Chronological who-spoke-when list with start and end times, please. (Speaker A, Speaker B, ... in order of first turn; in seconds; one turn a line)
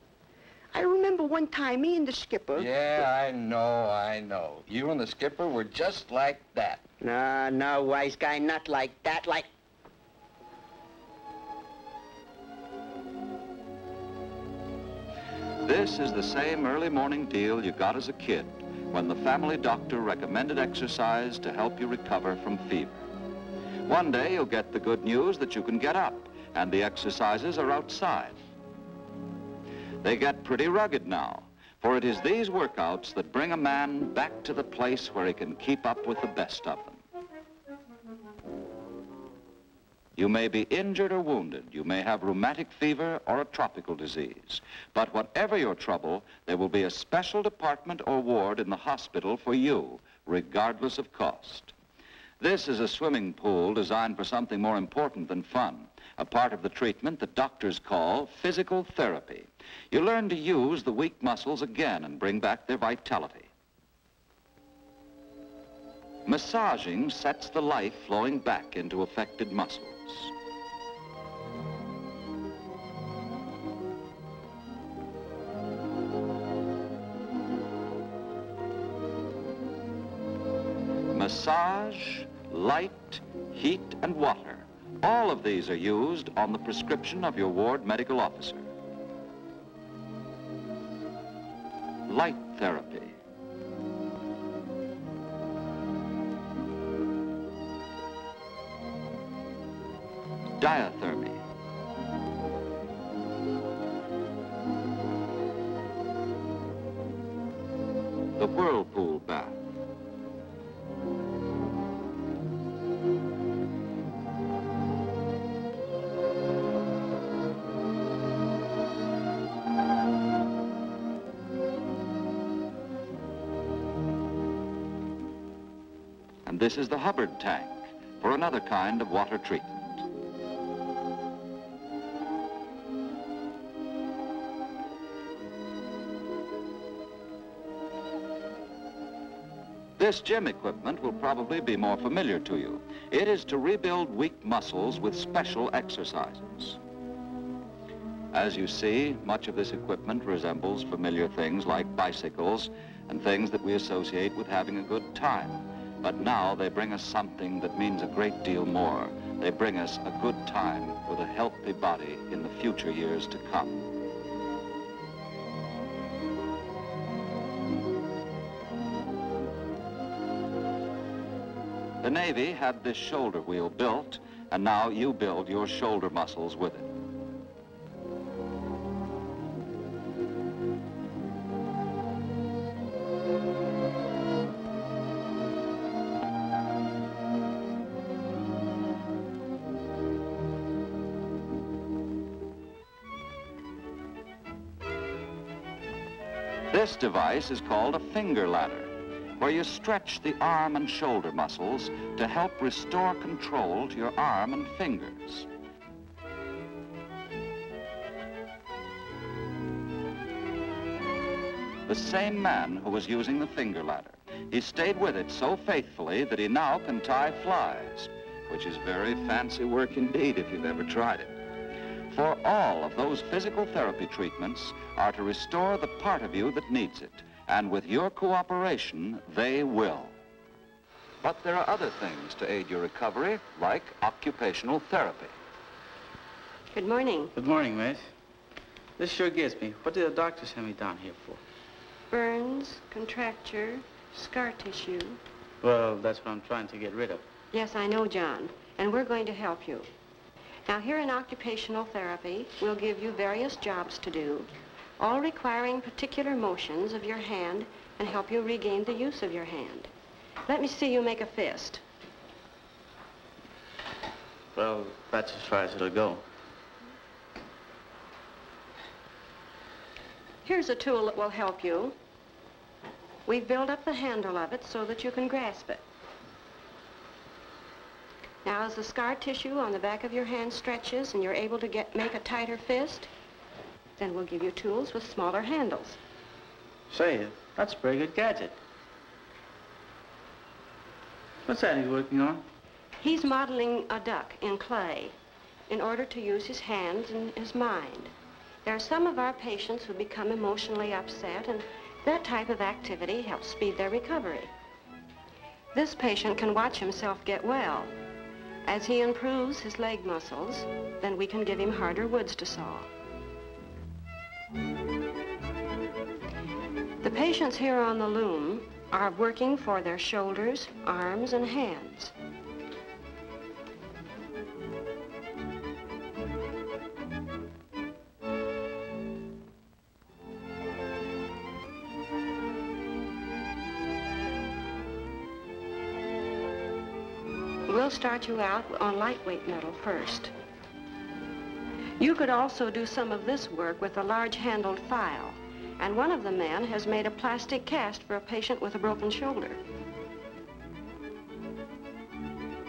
Speaker A: 0.7-2.7
Speaker B: 2.5-6.8
Speaker A: 7.0-9.5
Speaker C: 15.6-23.0
Speaker C: 23.9-28.4
Speaker C: 30.0-37.0
Speaker C: 40.2-51.7
Speaker C: 52.4-63.5
Speaker C: 66.2-70.3
Speaker C: 81.1-88.7
Speaker C: 92.1-93.1
Speaker C: 100.6-101.4
Speaker C: 108.4-109.6
Speaker C: 126.4-130.0
Speaker C: 140.0-146.8
Speaker C: 148.3-163.8
Speaker C: 172.0-176.9
Speaker C: 196.7-205.5
Speaker C: 211.9-221.3
Speaker C: 222.1-230.1
Speaker C: 231.2-235.3
Speaker D: 236.7-237.3
Speaker E: 237.3-238.1
Speaker E: 239.0-241.4
Speaker D: 242.1-245.2
Speaker E: 245.6-247.2
Speaker D: 247.5-249.9
Speaker D: 250.7-259.9
Speaker D: 260.4-261.8
Speaker E: 264.5-266.2
Speaker D: 270.4-271.9
Speaker D: 273.2-275.8
Speaker D: 278.4-283.1
Speaker D: 284.0-286.0
Speaker E: 286.9-288.6
Speaker E: 291.4-292.4
Speaker D: 293.0-295.1
Speaker D: 295.7-298.1
Speaker D: 298.6-304.5
Speaker D: 305.7-307.9
Speaker D: 308.6-312.9
Speaker D: 317.0-322.1
Speaker D: 337.7-340.3
Speaker D: 342.0-349.6